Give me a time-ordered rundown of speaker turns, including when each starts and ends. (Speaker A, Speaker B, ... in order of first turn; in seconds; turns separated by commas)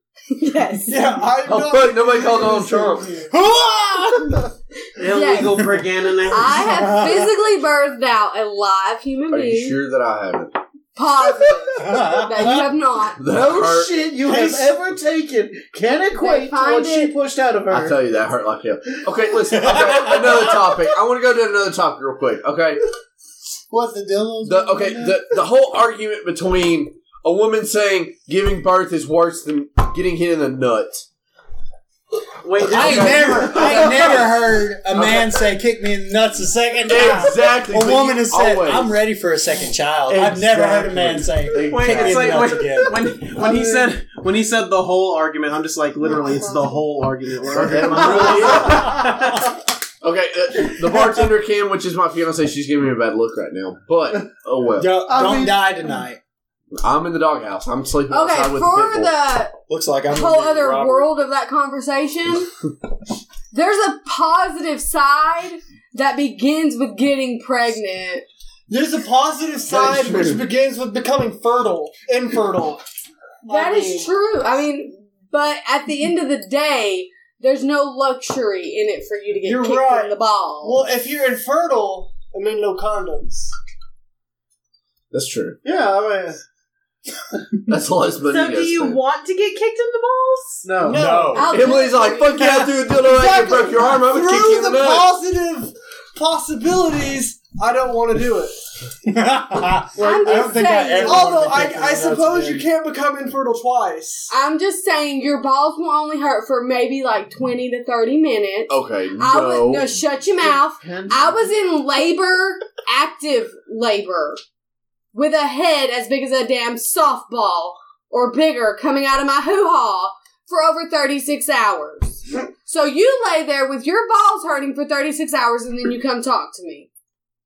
Speaker A: 0.3-1.1, Speaker B: 0.9-3.3, Speaker C: 1.4-3.1, Speaker D: 3.3-4.5, Speaker E: 5.0-6.7, Speaker A: 5.0-9.8, Speaker D: 6.6-7.3, Speaker C: 9.3-10.6, Speaker A: 10.9-13.2, Speaker D: 11.8-12.6, Speaker C: 13.2-14.3, Speaker F: 13.3-18.0, Speaker A: 16.1-17.1, Speaker C: 17.7-22.8, Speaker D: 19.6-20.4, Speaker F: 23.7-25.2, Speaker C: 24.4-31.1, Speaker E: 32.4-34.2, Speaker C: 32.6-34.3, Speaker D: 32.7-43.0, Speaker C: 34.9-35.4, Speaker C: 36.9-39.0, Speaker C: 40.1-42.5, Speaker E: 41.6-49.4, Speaker C: 47.5-49.1, Speaker F: 48.0-48.9, Speaker C: 50.0-54.9, Speaker D: 54.8-56.2, Speaker F: 55.1-55.9, Speaker C: 56.8-59.2, Speaker A: 58.1-62.5, Speaker D: 59.6-61.1, Speaker A: 63.5-68.3, Speaker B: 68.7-72.8, Speaker C: 69.7-70.5, Speaker B: 73.5-74.1, Speaker A: 73.5-80.8, Speaker B: 79.4-83.5, Speaker C: 85.1-85.6, Speaker F: 85.6-86.4, Speaker C: 87.7-89.0, Speaker G: 88.3-90.7, Speaker F: 90.6-91.4, Speaker D: 90.9-91.6, Speaker A: 91.2-92.7, Speaker C: 91.4-95.1, Speaker B: 92.9-98.6, Speaker D: 99.0-102.7, Speaker A: 100.0-101.4, Speaker B: 100.0-104.3, Speaker A: 104.3-114.4, Speaker C: 108.7-110.0, Speaker F: 110.4-111.5, Speaker A: 115.1-126.9